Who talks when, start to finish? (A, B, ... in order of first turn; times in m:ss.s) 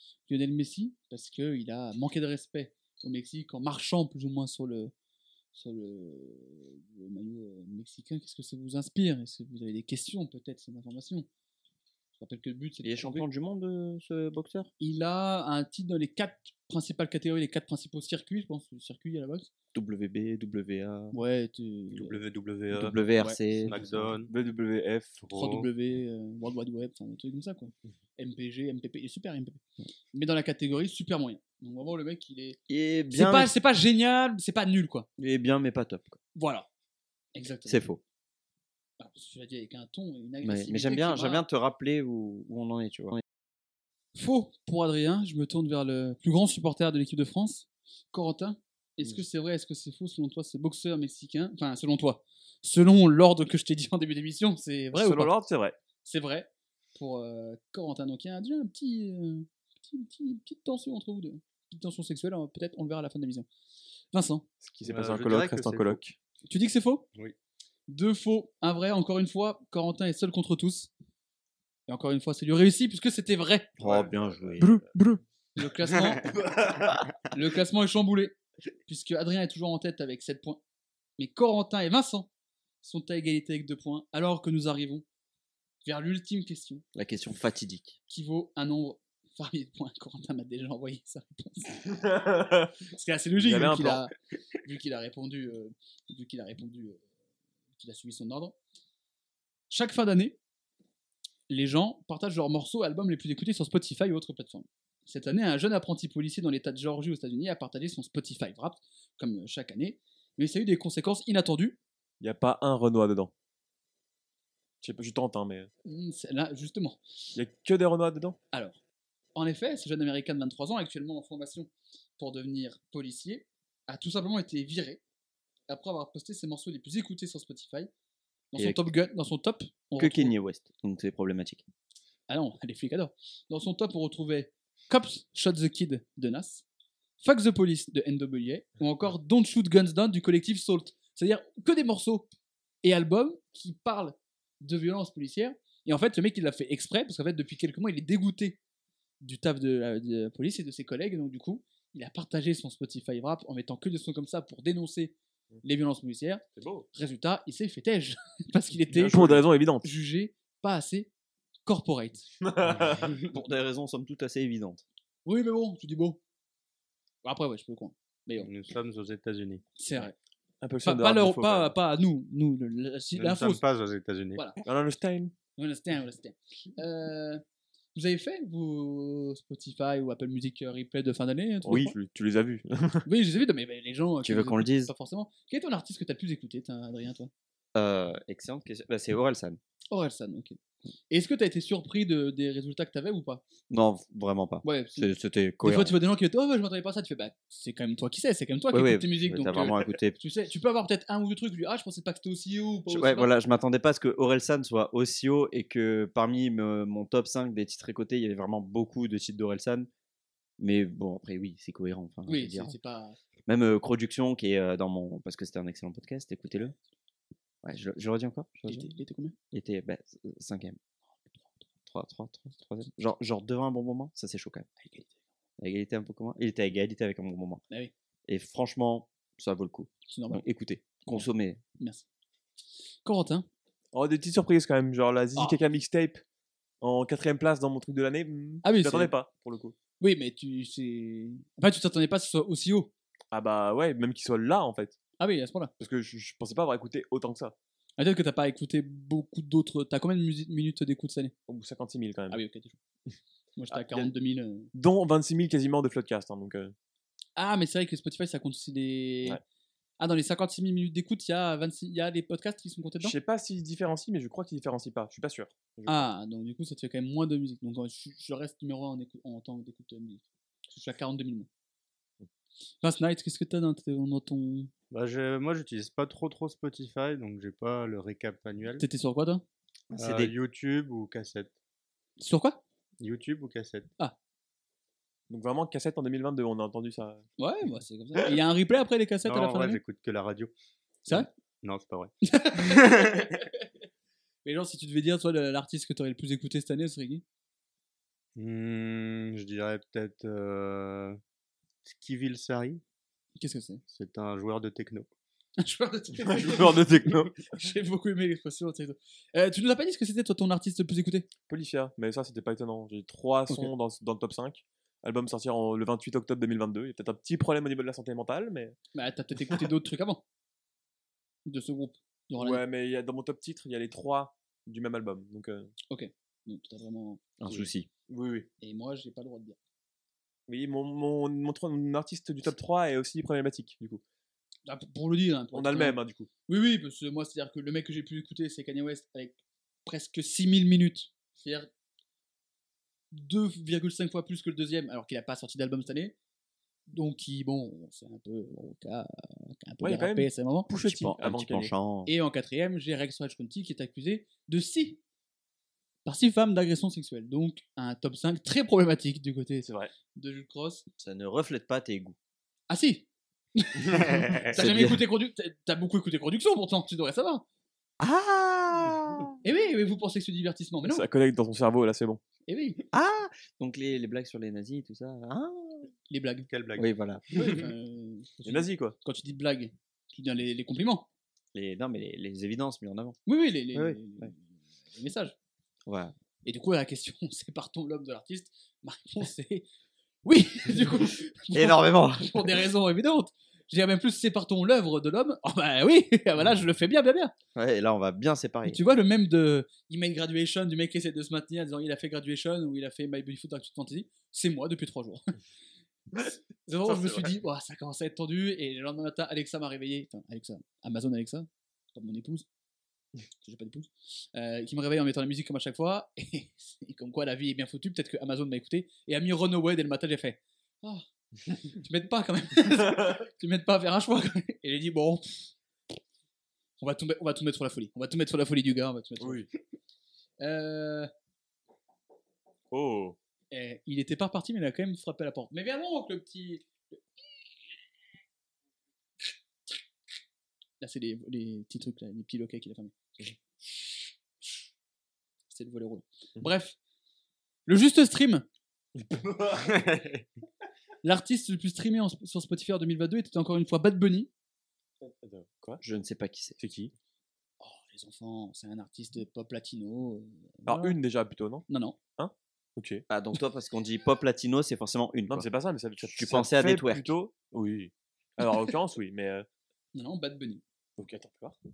0:00.3-0:04.9 A
0:05.5-0:11.3 A
0:12.2-0:13.2 A
0:12.8-0:14.7 B
0:14.8-0:19.5 A
0:19.7-0:21.2 B
0:21.1-0:22.2 A
0:21.9-0:23.0 C
0:22.7-0:24.1 B
0:23.6-0:24.3 C
0:24.3-0:25.2 D
0:25.2-0:25.7 C
0:25.3-0:29.6 A
0:30.1-0:32.6 A
0:32.7-0:33.5 B
0:33.1-0:35.1 A
0:35.2-0:36.2 B
0:36.3-0:36.7 A
0:37.3-0:37.8 A
0:37.6-0:38.0 B
0:39.0-0:41.4 A
0:40.4-0:43.2 B
0:44.1-0:55.3 A
0:54.9-0:55.8 D
0:56.0-1:03.5 A
1:04.1-1:04.4 A
1:04.6-1:06.2 D
1:04.8-1:06.0 C
1:06.5-1:07.0 A
1:07.9-1:10.9 A
1:11.9-1:13.7 A
1:13.8-1:14.8 B
1:13.8-1:14.2 C
1:14.6-1:16.3 A
1:17.3-1:20.6 A
1:21.2-1:22.3 A
1:22.8-1:25.0 A
1:25.8-1:26.8 A
1:26.9-1:28.0 B
1:28.1-1:31.8 A
1:31.9-1:32.7 D
1:32.9-1:34.1 A
1:33.4-1:34.1 D
1:34.6-1:37.0 A
1:37.8-1:38.6 A
1:39.7-1:40.4 A
1:41.5-1:51.8 A
1:52.2-1:53.3 D
1:54.8-1:55.7 D
1:55.8-1:57.0 A
1:57.4-1:58.4 D
1:58.5-1:58.8 A
1:59.3-2:05.0 A
2:05.7-2:07.9 A
2:08.5-2:10.3 A
2:08.6-2:08.9 B
2:10.0-2:11.6 B
2:12.3-2:16.6 A
2:17.2-2:22.3 A
2:22.8-2:28.6 A
2:29.2-2:36.4 A
2:36.6-2:36.8 D
2:36.9-2:41.1 A
2:39.0-2:39.9 D
2:41.6-2:42.2 A
2:42.4-2:43.1 D
2:43.2-2:44.8 B
2:45.2-2:46.2 A
2:47.2-2:48.5 A
2:48.4-2:49.6 C
2:49.8-2:50.1 A
2:50.6-2:51.7 D
2:50.8-2:53.6 A
2:53.1-2:54.4 C
2:54.6-2:55.3 D
2:55.6-2:57.4 A
2:57.9-3:01.9 A
3:01.6-3:03.0 D
3:03.0-3:07.3 A
3:04.2-3:04.9 B
3:07.7-3:09.6 B
3:09.9-3:10.6 A
3:11.1-3:13.4 A
3:13.7-3:16.0 B
3:14.6-3:23.3 A
3:18.7-3:20.2 B
3:22.9-3:29.9 B
3:30.6-3:32.7 B
3:32.3-3:33.2 A
3:33.5-3:36.7 B
3:37.6-3:38.9 B
3:38.7-3:39.4 A
3:39.5-3:40.8 B
3:41.2-3:41.5 A
3:41.9-3:44.7 B
3:44.8-3:45.1 A
3:45.6-3:47.6 B
3:48.3-3:51.6 B
3:50.1-3:50.4 A
3:51.8-3:52.0 A
3:53.0-3:53.5 A
3:53.9-3:56.2 D
3:56.8-3:59.7 D
3:58.6-3:59.1 A
4:00.0-4:02.9 A
4:03.3-4:05.0 D
4:05.2-4:05.7 A
4:05.8-4:07.5 D
4:08.0-4:11.3 A
4:11.5-4:12.4 D
4:12.3-4:12.8 A
4:13.6-4:14.7 A
4:13.7-4:14.1 D
4:14.7-4:16.7 D
4:17.4-4:19.4 A
4:20.0-4:23.2 A
4:23.0-4:26.1 D
4:25.9-4:31.5 A
4:32.8-4:34.7 A
4:34.9-4:38.8 C
4:38.8-4:39.4 A
4:39.9-4:40.3 B
4:40.0-4:41.5 C
4:42.2-4:42.6 A
4:43.0-4:43.9 C
4:45.3-4:47.2 D
4:47.4-4:49.8 A
4:49.2-4:50.5 C
4:51.1-4:53.3 C
4:52.2-4:53.5 A
4:54.4-4:57.2 A
4:58.4-5:01.2 C
5:01.8-5:02.8 C
5:03.4-5:03.8 A
5:03.9-5:05.1 C
5:05.6-5:11.3 A
5:06.2-5:07.4 D
5:11.5-5:18.8 D
5:18.9-5:20.2 A
5:21.4-5:22.6 A
5:22.4-5:25.7 D
5:25.9-5:27.7 A
5:27.4-5:27.9 B
5:28.1-5:28.5 D
5:28.6-5:29.6 A
5:30.5-5:34.0 D
5:34.6-5:36.0 A
5:35.5-5:36.3 D
5:36.5-5:41.7 A
5:43.1-5:46.1 A
5:46.9-5:50.7 A
5:49.8-5:51.7 D
5:50.7-5:52.1 B
5:52.0-5:55.0 A
5:56.0-6:00.8 A
5:59.6-5:59.9 D
6:01.0-6:02.2 B
6:02.7-6:07.4 A
6:04.1-6:04.4 C
6:04.5-6:05.0 B
6:08.0-6:09.4 B
6:09.4-6:11.0 A
6:10.8-6:12.2 D
6:12.5-6:12.8 A
6:12.9-6:15.9 B
6:16.1-6:16.5 A
6:16.5-6:17.6 C
6:16.8-6:17.2 B
6:17.3-6:21.1 A
6:18.4-6:18.9 D
6:21.5-6:23.2 B
6:23.2-6:25.3 A
6:23.7-6:24.3 B
6:25.9-6:26.1 B
6:26.4-6:29.6 A
6:30.2-6:37.3 A
6:31.5-6:32.6 B
6:37.5-6:38.8 B
6:38.6-6:45.3 A
6:46.6-6:52.4 A
6:53.4-7:05.5 A
7:06.8-7:09.4 A
7:09.2-7:09.5 D
7:10.4-7:11.1 A
7:12.7-7:13.2 D
7:13.5-7:17.0 A
7:20.8-7:22.9 A
7:25.5-7:26.8 A
7:27.6-7:28.4 A
7:29.0-7:29.8 D
7:29.5-7:30.3 C
7:31.0-7:34.3 A
7:35.0-7:35.8 D
7:35.8-7:36.6 B
7:36.6-7:36.9 D
7:37.6-7:41.0 A
7:40.6-7:41.6 D
7:41.7-7:42.0 A
7:42.2-7:43.0 D
7:43.1-7:45.5 B
7:45.3-7:49.5 D
7:46.0-7:47.1 B
7:49.9-7:50.6 A
7:51.0-7:51.6 D